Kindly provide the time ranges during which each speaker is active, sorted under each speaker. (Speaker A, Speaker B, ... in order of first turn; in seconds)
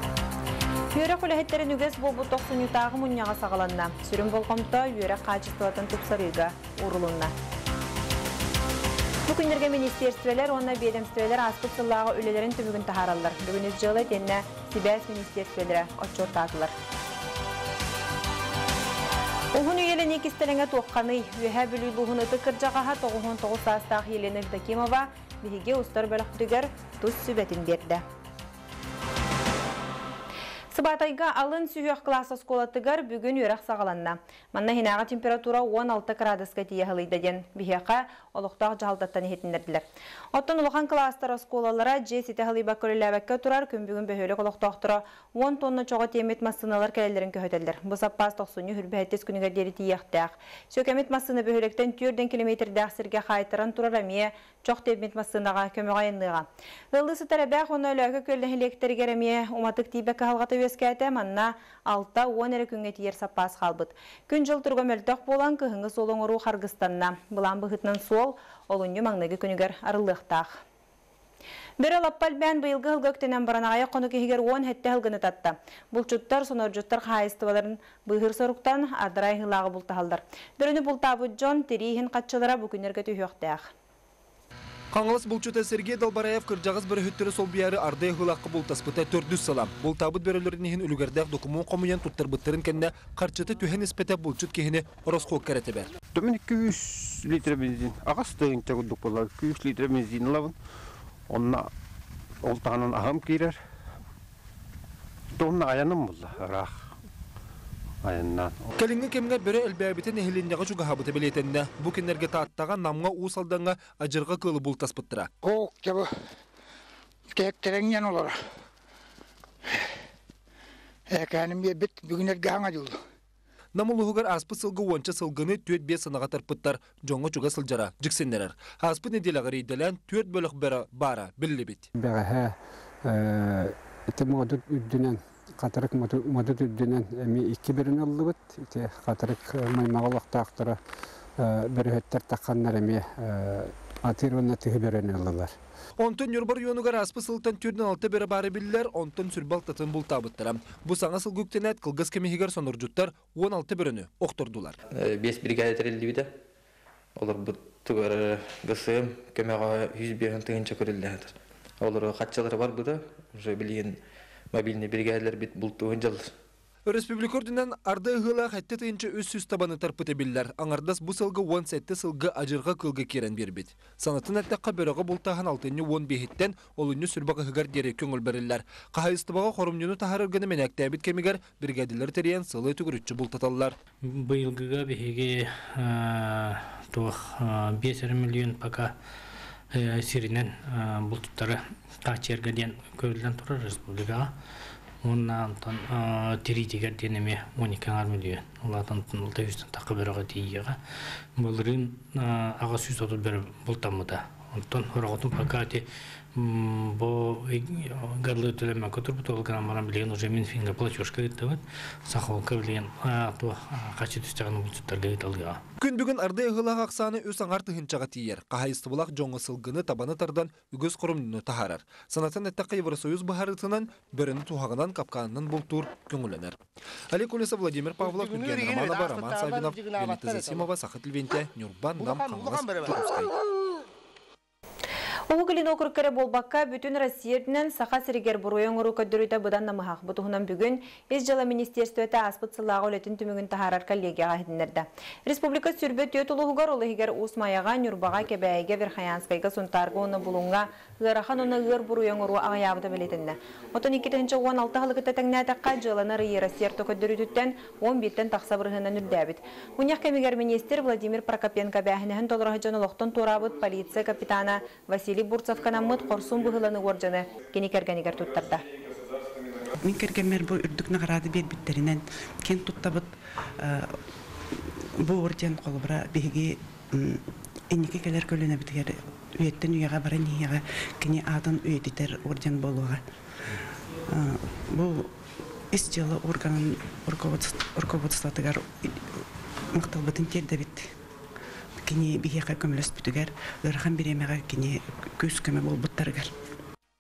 Speaker A: 0.9-7.3, 9.3-16.7, 19.5-28.0, 30.7-70.6, 71.8-83.7, 235.3-268.7
Speaker B: 84.9-95.9, 108.8-115.3, 123.8-131.9, 146.0-154.8, 166.9-183.8, 215.8-226.6, 227.1-233.3
Speaker C: 96.1-100.5, 101.3-101.7, 102.4-103.6, 105.4-106.8, 108.0-108.7
Speaker D: 115.4-116.2, 117.3-118.4, 121.1-123.0, 228.0-230.7, 232.0-233.3
Speaker E: 131.9-140.8, 141.4-145.6
Speaker F: 154.9-156.3, 157.2-164.0, 164.5-166.3
Speaker G: 184.0-188.9, 189.7-194.3, 195.0-200.8, 201.4-205.8, 206.4-215.6
Speaker H: 269.8-274.0, 275.0-283.0, 284.1-285.1, 285.7-290.9, 291.8-296.3